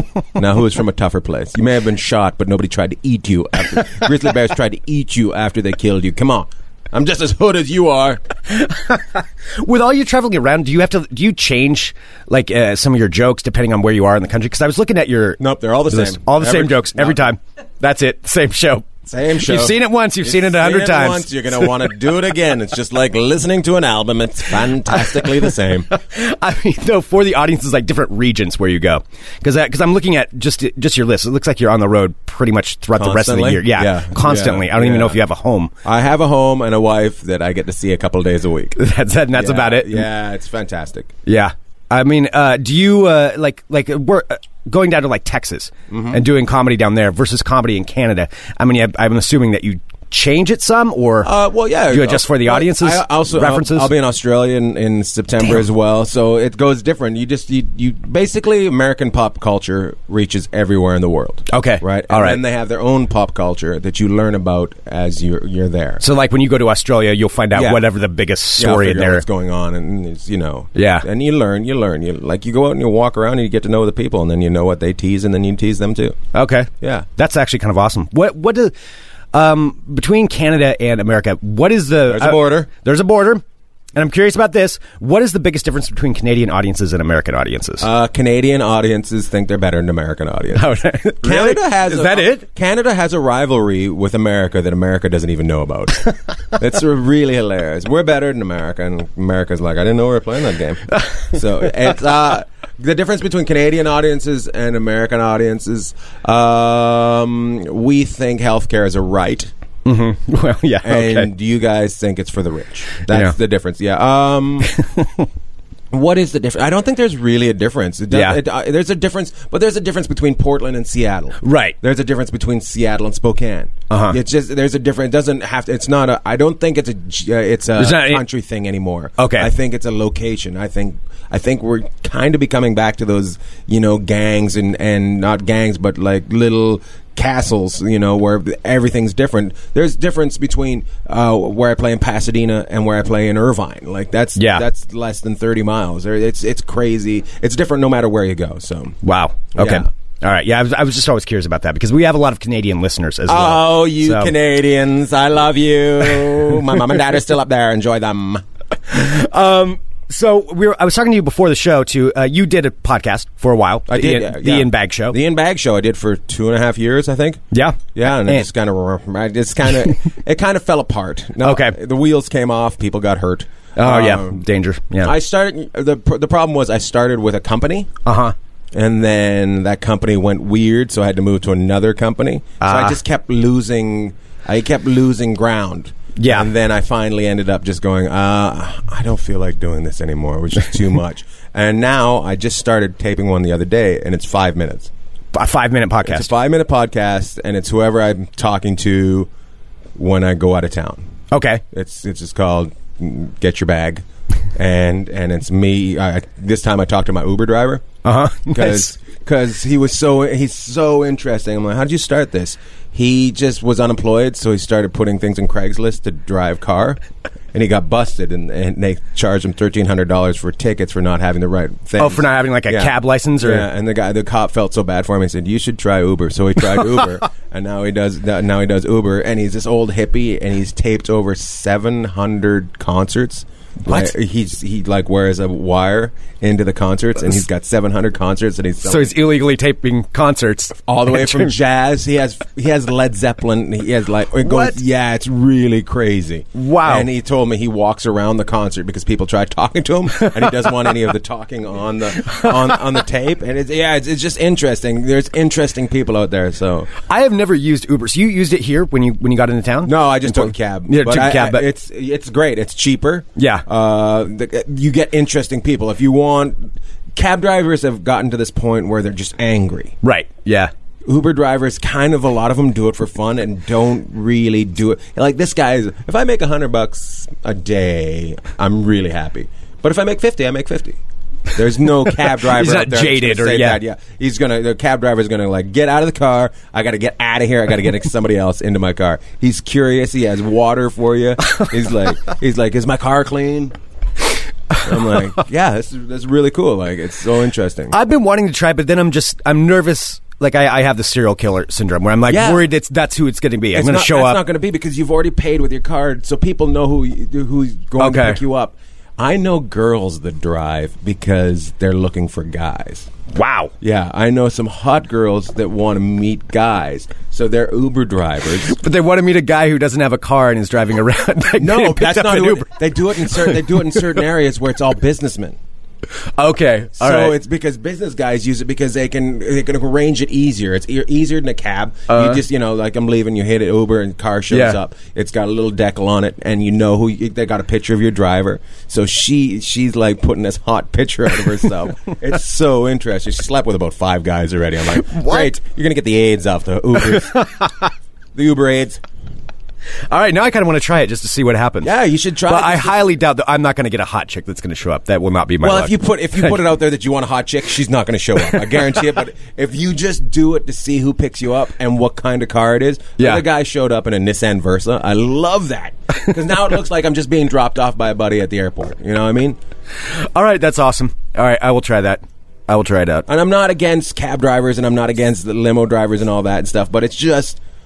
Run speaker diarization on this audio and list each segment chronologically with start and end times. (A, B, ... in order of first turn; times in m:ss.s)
0:00.3-0:08.2 A
0:08.5-0:21.7 B
0:15.4-0:17.3 A
0:19.1-0:25.9 A
0:25.9-0:35.7 B
0:32.9-0:35.2 A
0:35.8-0:38.8 A
0:38.8-0:40.0 B
0:39.3-0:41.1 A
0:41.2-0:51.3 B
0:45.9-0:46.2 A
0:51.2-1:06.0 A
0:51.9-0:53.9 B
1:01.5-1:02.4 B
1:06.0-1:09.2 B
1:07.5-1:07.9 A
1:08.6-1:16.2 A
1:10.7-1:11.1 B
1:16.3-1:18.7 B
1:16.8-1:17.1 A
1:19.3-1:23.4 B
1:22.0-1:22.7 A
1:23.9-1:27.9 B
1:27.8-1:49.5 A
1:30.5-1:32.4 B
1:40.9-1:41.9 B
1:49.8-1:51.3 B
1:50.8-1:54.7 A
1:53.1-1:53.3 B
1:54.7-1:55.3 B
1:55.9-2:29.0 A
1:58.1-1:58.4 B
2:01.4-2:01.7 B
2:03.9-2:04.2 B
2:07.8-2:08.2 B
2:09.2-2:09.5 B
2:24.4-2:24.6 B
2:29.0-2:34.3 B
2:29.5-2:29.9 A
2:33.3-2:38.4 A
2:38.9-2:45.2 B
2:43.9-2:54.4 A
2:47.5-2:48.5 B
2:51.4-2:51.8 B
2:53.8-2:55.1 B
2:55.0-2:57.9 A
2:58.0-2:58.3 B
2:58.7-3:14.9 A
3:02.6-3:03.0 B
3:06.2-3:06.5 B
3:15.3-3:16.3 B
3:16.0-3:19.3 A
3:20.0-3:21.0 A
3:21.3-3:21.6 B
3:21.7-3:27.8 A
3:28.0-3:28.9 B
3:28.5-3:37.0 A
3:37.5-3:59.2 A
3:42.0-3:43.6 B
3:53.8-3:54.1 B
3:58.8-4:01.5 B
4:00.9-4:16.9 A
4:04.4-4:04.8 B
4:06.6-4:07.1 B
4:12.2-4:12.5 B
4:17.1-4:21.6 B
4:19.8-4:29.9 A
4:23.4-4:23.6 B
4:30.0-4:30.7 B
4:31.0-4:41.0 A
4:41.5-4:53.8 A
4:42.1-4:43.8 B
4:54.7-4:55.2 B
4:54.8-4:58.0 A
4:57.9-5:04.4 B
5:02.3-5:02.6 A
5:03.7-5:13.1 A
5:08.0-5:08.4 B
5:13.3-5:13.7 B
5:13.8-5:18.8 A
5:18.6-5:24.2 B
5:21.6-5:25.6 A
5:26.4-5:27.4 B
5:27.0-5:47.5 A
5:32.1-5:32.4 B
5:34.5-5:34.8 B
5:45.0-5:45.5 B
5:47.1-5:47.9 B
5:48.3-5:49.0 A
5:50.1-5:51.9 B
5:51.8-5:53.1 A
5:52.4-5:56.6 B
5:55.6-6:09.6 A
6:03.2-6:03.4 B
6:10.0-6:13.2 B
6:13.3-6:17.6 A